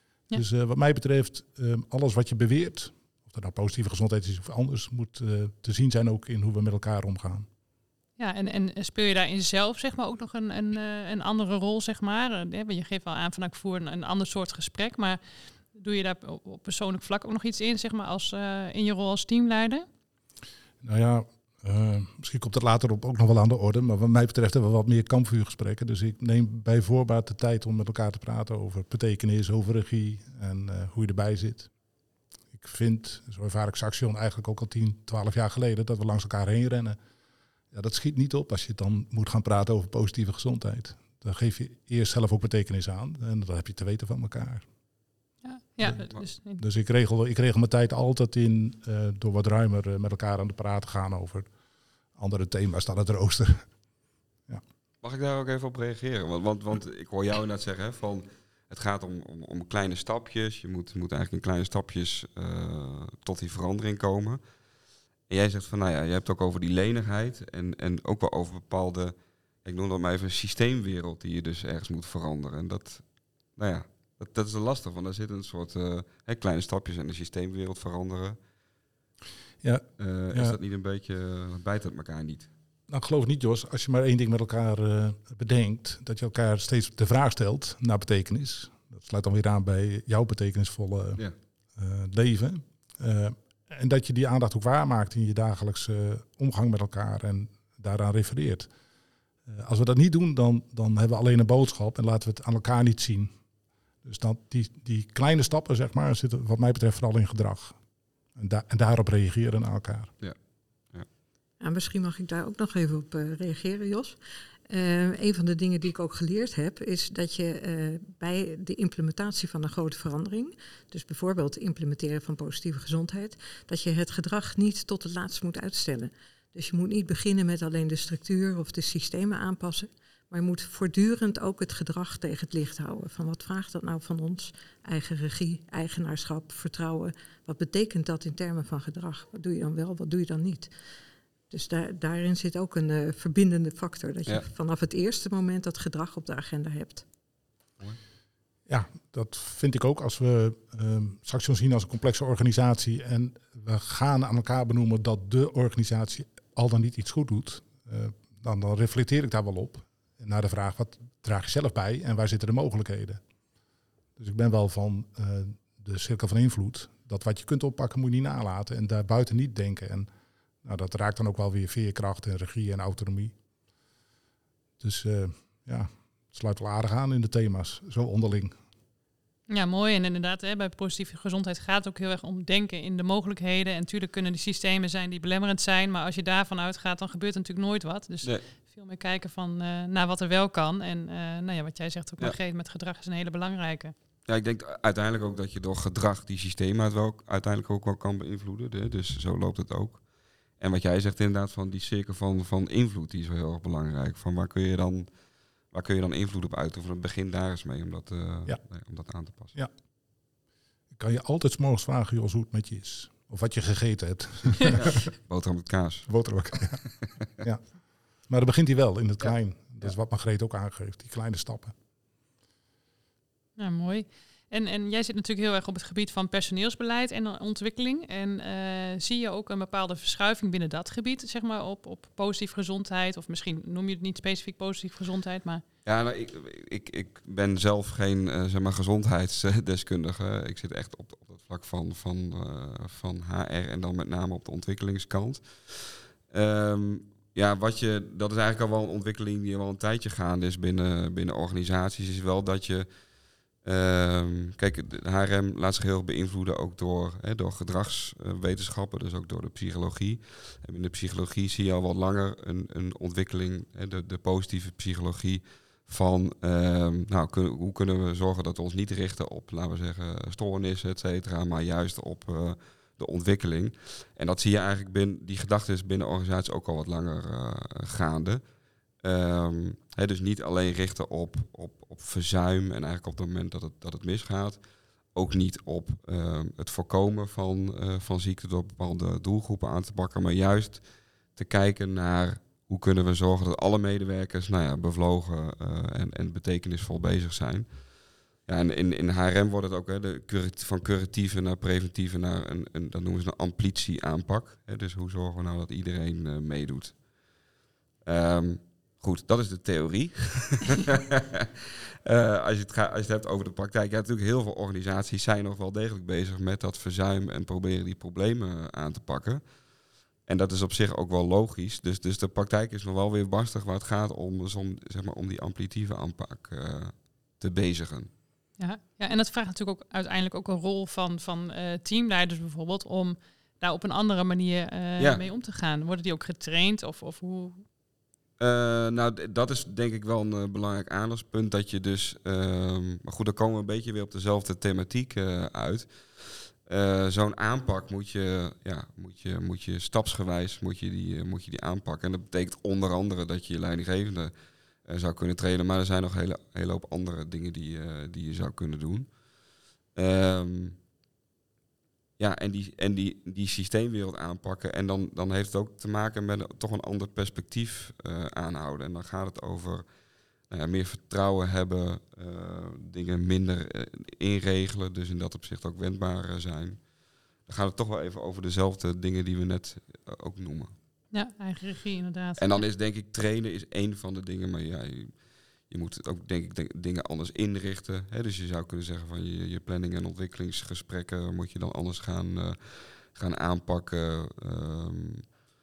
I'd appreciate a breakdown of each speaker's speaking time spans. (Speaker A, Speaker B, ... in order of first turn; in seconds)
Speaker A: 0.3-7.5, 20.8-31.7, 32.6-37.0, 37.7-44.7, 46.6-51.5, 52.2-53.7, 79.6-80.6, 82.9-91.2, 91.8-98.7, 99.5-103.3, 104.0-107.8, 108.4-110.1, 148.7-163.2, 164.2-170.1, 170.6-173.3, 174.8-178.6, 210.9-214.8, 216.1-216.8, 217.4-217.6, 218.3-221.8
Speaker B: 8.2-15.2, 15.7-19.9, 45.4-46.6, 179.5-193.9, 223.6-235.6, 328.6-337.6, 381.1-382.6
Speaker C: 55.0-64.4, 65.3-73.0, 73.6-78.4, 80.0-82.5, 194.3-200.0, 200.6-205.1, 205.7-209.6, 214.7-217.4, 219.2-219.9, 235.8-252.9, 253.6-278.4, 279.0-284.6, 285.1-290.8, 291.4-297.7, 298.4-307.0, 308.1-319.5, 320.3-328.1, 338.4-354.3, 354.9-359.1, 359.9-360.8, 362.2-369.9, 370.5-376.8, 377.4-380.7, 382.4-385.1, 385.7-395.3
Speaker D: 111.6-114.2, 114.7-140.7, 141.5-147.1